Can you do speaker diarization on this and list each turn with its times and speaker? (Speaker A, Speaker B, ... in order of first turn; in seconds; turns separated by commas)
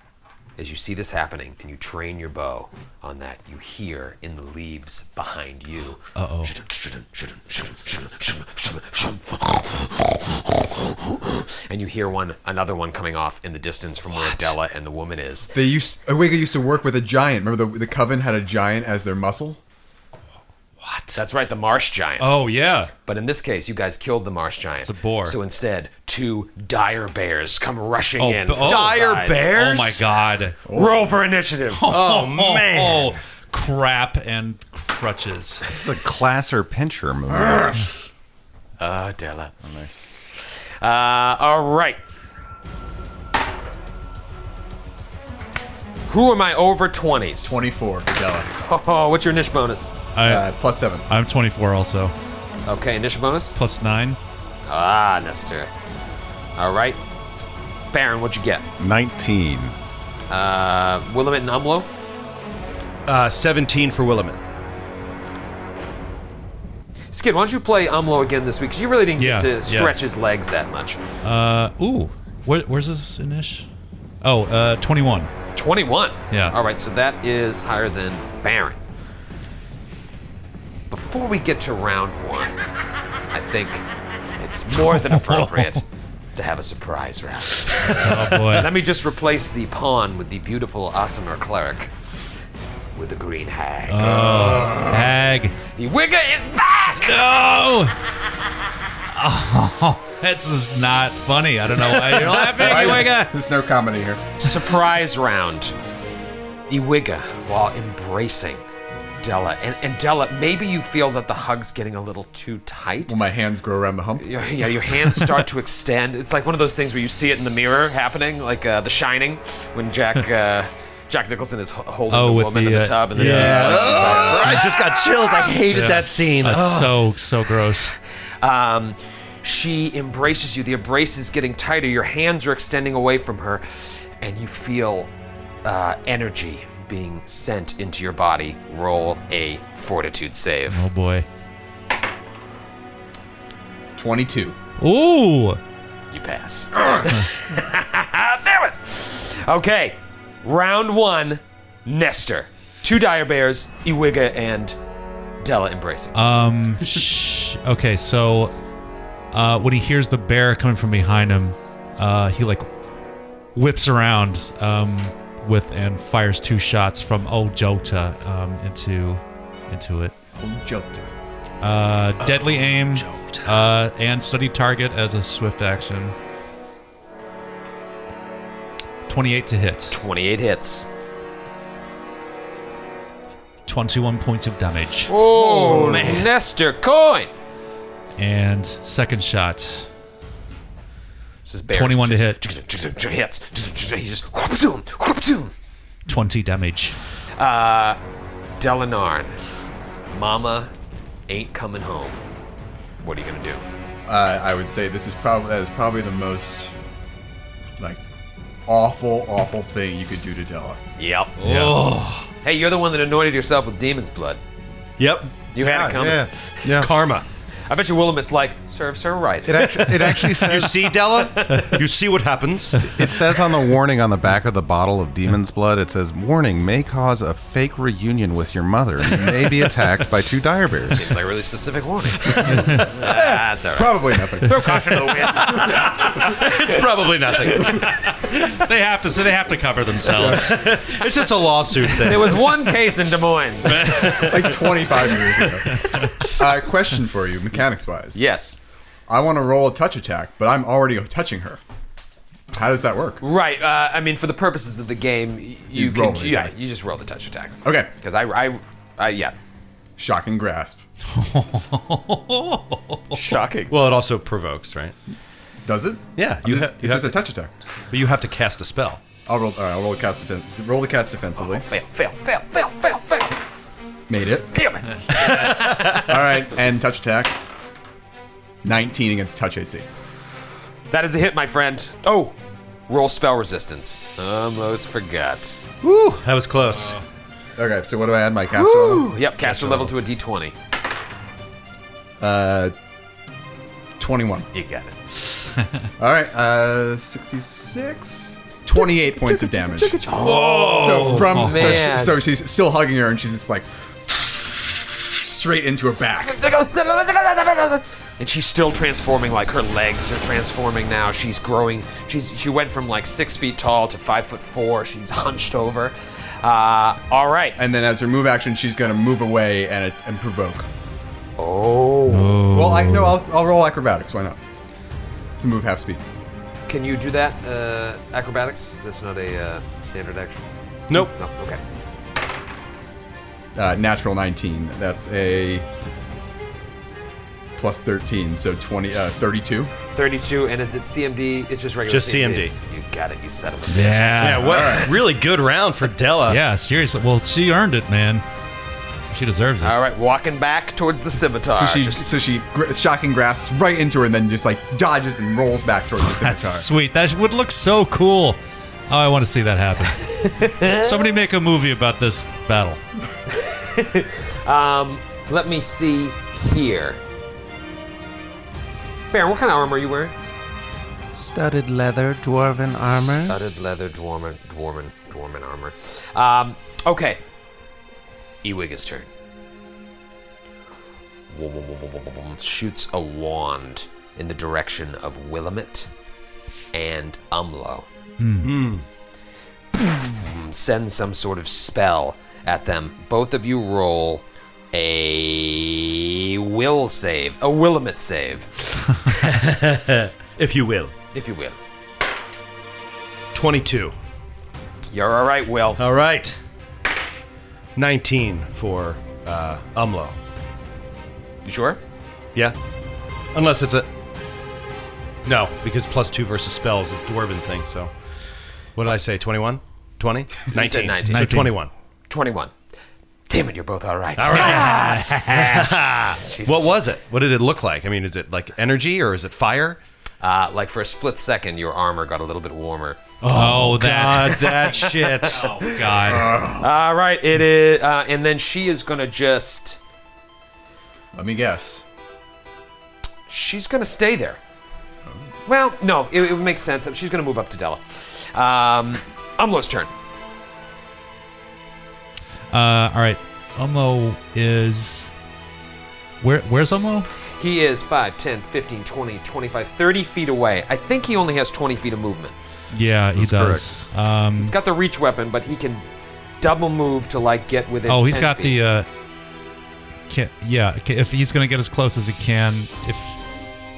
Speaker A: 0.6-15.5, Speaker B: 6.2-6.5, Speaker C: 15.5-19.6, Speaker D: 20.8-21.2, Speaker A: 21.1-22.4, Speaker B: 22.2-22.9, Speaker A: 23.0-29.9, Speaker B: 24.9-25.4, Speaker B: 28.2-30.6, Speaker D: 28.6-29.9, Speaker C: 30.7-31.1, Speaker A: 30.7-31.9, Speaker B: 31.7-35.6, Speaker D: 31.9-33.2, Speaker E: 35.7-37.9, Speaker A: 37.6-37.9, Speaker A: 38.8-39.5, Speaker E: 39.6-39.9, Speaker A: 40.8-42.0, Speaker A: 46.1-47.6, Speaker C: 47.4-48.5, Speaker A: 48.6-49.9, Speaker B: 50.1-50.5, Speaker C: 50.2-51.0, Speaker B: 51.1-52.1, Speaker A: 52.7-53.5, Speaker B: 53.5-54.2, Speaker A: 54.7-55.7, Speaker A: 56.6-57.0, Speaker A: 57.9-58.7, Speaker E: 58.8-59.8, Speaker A: 60.3-61.9, Speaker D: 63.1-64.4, Speaker A: 67.1-71.0, Speaker B: 69.2-70.0, Speaker B: 71.2-73.7, Speaker B: 74.2-75.3, Speaker A: 75.5-78.8, Speaker B: 76.3-76.6, Speaker A: 80.9-82.6, Speaker A: 83.3-83.9, Speaker A: 84.4-91.9, Speaker B: 84.8-85.8, Speaker B: 87.8-88.7, Speaker A: 93.0-94.3, Speaker B: 93.9-95.6, Speaker C: 94.1-95.1, Speaker A: 95.8-97.2, Speaker B: 97.0-98.0, Speaker B: 99.1-103.3, Speaker C: 102.1-104.4, Speaker A: 102.2-103.0, Speaker A: 104.4-105.8, Speaker A: 106.7-108.6, Speaker A: 109.2-113.2, Speaker C: 113.1-114.3, Speaker A: 114.2-126.0, Speaker B: 122.1-124.3, Speaker D: 123.1-126.9, Speaker B: 125.7-128.0, Speaker A: 128.4-135.1, Speaker A: 135.6-140.8, Speaker B: 140.7-141.3, Speaker C: 144.0-144.6, Speaker B: 144.8-145.6, Speaker A: 146.1-154.8, Speaker A: 155.4-156.2, Speaker B: 156.1-158.5, Speaker B: 159.3-162.7, Speaker B: 163.6-170.1, Speaker C: 170.4-171.1, Speaker B: 171.6-176.2, Speaker A: 173.0-173.5, Speaker B: 179.1-180.0, Speaker A: 179.9-180.9, Speaker B: 183.7-185.2, Speaker A: 185.1-187.3, Speaker D: 185.3-186.3, Speaker B: 188.2-189.9, Speaker A: 191.4-195.5, Speaker B: 191.7-192.4, Speaker B: 196.1-197.0, Speaker A: 197.4-198.0, Speaker A: 198.6-199.5, Speaker A: 200.1-200.7, Speaker A: 201.3-202.2, Speaker A: 203.0-203.6, Speaker C: 204.1-206.7, Speaker C: 208.7-210.8, Speaker A: 211.0-211.4, Speaker D: 211.4-212.3, Speaker B: 211.4-211.9, Speaker A: 212.4-214.4, Speaker D: 215.0-215.4, Speaker A: 215.5-216.9, Speaker E: 215.6-216.9, Speaker D: 216.7-217.2, Speaker A: 217.7-220.4, Speaker E: 219.5-220.7, Speaker D: 219.6-222.8, Speaker A: 221.1-221.8, Speaker E: 222.9-231.1, Speaker A: 230.9-236.9, Speaker C: 232.3-235.6, Speaker D: 235.4-237.9, Speaker B: 237.6-240.8, Speaker D: 240.2-242.5, Speaker A: 242.0-244.2, Speaker B: 243.7-246.1, Speaker C: 244.0-248.2, Speaker A: 248.2-248.6, Speaker C: 249.1-251.6, Speaker C: 252.5-253.2, Speaker A: 253.2-259.4, Speaker C: 255.7-256.6, Speaker C: 257.6-257.9, Speaker C: 260.0-260.8, Speaker B: 261.1-263.2, Speaker A: 263.1-263.8, Speaker D: 263.7-264.9, Speaker C: 265.6-267.5, Speaker D: 266.2-267.2, Speaker D: 267.9-269.0, Speaker C: 269.3-271.7, Speaker A: 271.4-273.4, Speaker C: 274.1-277.4, Speaker A: 274.5-276.4, Speaker C: 278.6-279.9, Speaker A: 280.9-282.4, Speaker A: 282.9-285.6, Speaker D: 285.8-287.0, Speaker C: 287.6-289.1, Speaker A: 288.5-290.5, Speaker B: 289.4-289.8, Speaker C: 292.2-292.7, Speaker C: 294.0-294.5, Speaker A: 294.5-295.0, Speaker C: 296.0-306.4, Speaker A: 298.7-302.3, Speaker B: 300.2-301.9, Speaker A: 306.2-317.6, Speaker C: 317.6-320.7, Speaker A: 321.4-322.4, Speaker B: 322.1-323.2, Speaker C: 322.5-324.4, Speaker C: 325.4-326.0, Speaker A: 326.7-331.6, Speaker C: 333.6-335.6, Speaker C: 337.6-339.7, Speaker A: 339.9-344.4, Speaker D: 341.9-342.5, Speaker B: 343.7-344.9, Speaker D: 344.2-346.4, Speaker C: 344.4-345.0, Speaker B: 346.3-348.2, Speaker B: 349.1-349.8, Speaker A: 349.6-352.1, Speaker C: 351.5-356.7, Speaker B: 356.0-358.4, Speaker B: 358.9-362.8, Speaker A: 360.0-361.1, Speaker A: 363.3-367.0, Speaker A: 369.1-370.1, Speaker F: 371.1-373.4, Speaker A: 373.3-377.2, Speaker A: 378.4-379.1, Speaker A: 381.3-385.9, Speaker A: 386.7-387.9, Speaker B: 388.2-388.7, Speaker D: 388.4-388.8, Speaker A: 389.7-399.1, Speaker D: 399.1-400.9, Speaker A: 401.1-401.6, Speaker D: 403.3-403.9, Speaker A: 404.9-405.8, Speaker D: 405.8-406.4, Speaker D: 407.8-410.2, Speaker A: 411.4-411.8, Speaker D: 413.3-413.9, Speaker D: 415.2-417.9, Speaker D: 418.8-421.7, Speaker A: 420.5-421.5, Speaker B: 421.1-421.5, Speaker A: 422.1-422.5, Speaker A: 423.3-426.8, Speaker D: 424.2-429.8, Speaker A: 430.2-433.0, Speaker D: 433.2-435.5, Speaker B: 433.3-434.8, Speaker A: 434.6-435.9, Speaker B: 435.3-436.4, Speaker C: 435.9-436.8, Speaker A: 436.5-439.8, Speaker C: 441.1-441.8, Speaker A: 443.3-444.4, Speaker A: 445.5-449.9, Speaker B: 452.5-455.1, Speaker B: 456.2-457.1, Speaker A: 457.4-462.4, Speaker B: 462.7-464.6, Speaker E: 462.9-463.8, Speaker A: 464.4-465.8, Speaker A: 466.4-468.6, Speaker B: 467.9-468.9, Speaker B: 470.1-473.2